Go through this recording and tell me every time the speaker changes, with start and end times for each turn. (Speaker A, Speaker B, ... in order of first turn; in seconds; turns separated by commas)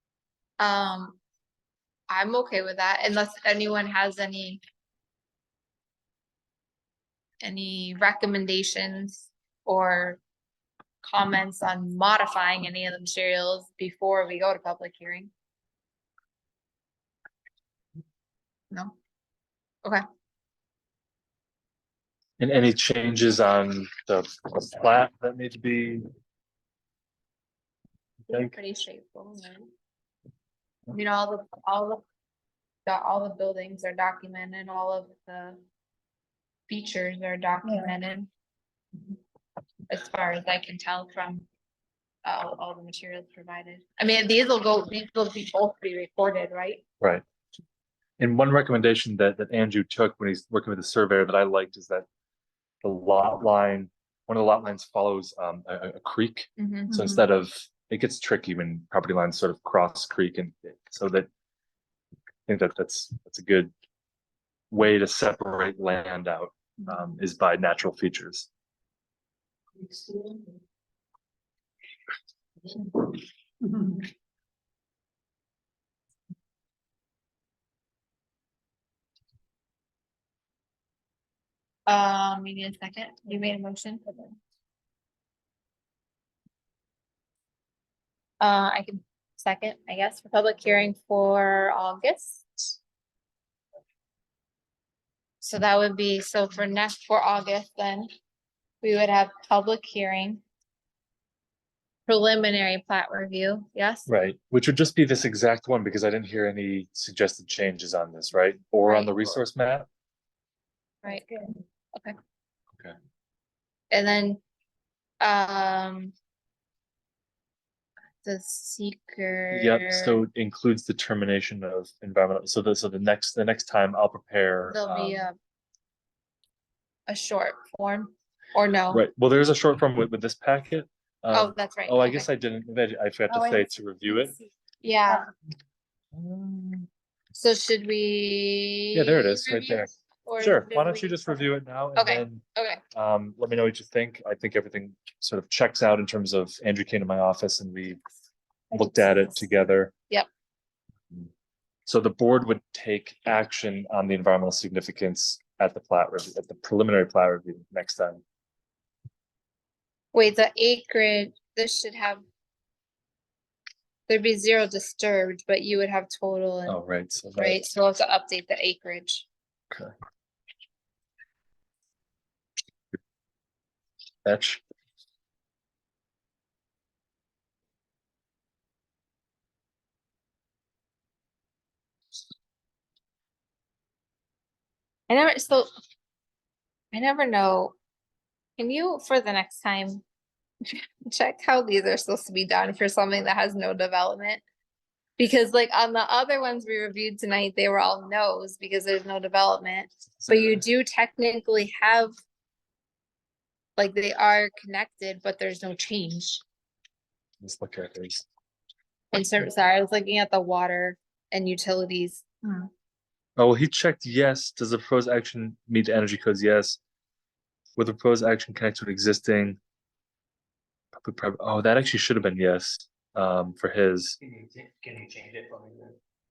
Speaker A: 0.6-1.2, Speaker A: 2.1-4.6, Speaker A: 7.4-10.2, Speaker A: 11.0-15.3, Speaker B: 22.4-26.0, Speaker B: 28.3-28.6, Speaker A: 28.3-29.7, Speaker A: 30.9-32.0, Speaker A: 32.9-35.6, Speaker A: 36.7-38.3, Speaker C: 37.6-37.9, Speaker A: 39.9-41.5, Speaker A: 42.2-46.8, Speaker B: 48.2-52.0, Speaker B: 52.8-61.3, Speaker A: 56.6-56.9, Speaker C: 56.9-57.2, Speaker B: 62.5-63.7, Speaker B: 64.7-68.5, Speaker C: 69.9-70.4, Speaker A: 81.9-84.3, Speaker A: 88.4-92.8, Speaker A: 95.4-98.1, Speaker A: 98.8-100.4, Speaker A: 102.1-104.1, Speaker B: 104.1-109.9, Speaker A: 108.8-109.3, Speaker C: 111.0-111.5, Speaker A: 113.9-114.4, Speaker A: 115.2-116.1, Speaker A: 118.2-120.2, Speaker B: 119.5-125.3, Speaker A: 124.7-125.3, Speaker A: 127.1-129.1, Speaker B: 128.9-134.3, Speaker A: 131.3-132.3, Speaker C: 133.3-134.4, Speaker A: 134.8-135.2, Speaker B: 136.1-136.9, Speaker A: 137.3-141.4, Speaker B: 138.9-148.0, Speaker A: 141.9-142.8, Speaker B: 148.7-149.9, Speaker C: 148.8-149.2, Speaker B: 151.8-158.2, Speaker A: 160.1-162.2, Speaker A: 164.1-166.8, Speaker B: 166.7-167.6, Speaker A: 167.3-169.2, Speaker B: 174.2-174.6, Speaker A: 185.1-185.7, Speaker A: 186.9-187.7, Speaker A: 188.6-190.0, Speaker A: 190.7-194.4, Speaker A: 195.2-202.1, Speaker A: 203.8-206.4, Speaker B: 207.4-208.2, Speaker A: 209.1-212.7, Speaker B: 213.4-216.8, Speaker B: 217.8-219.6, Speaker B: 221.0-224.2, Speaker C: 224.4-225.9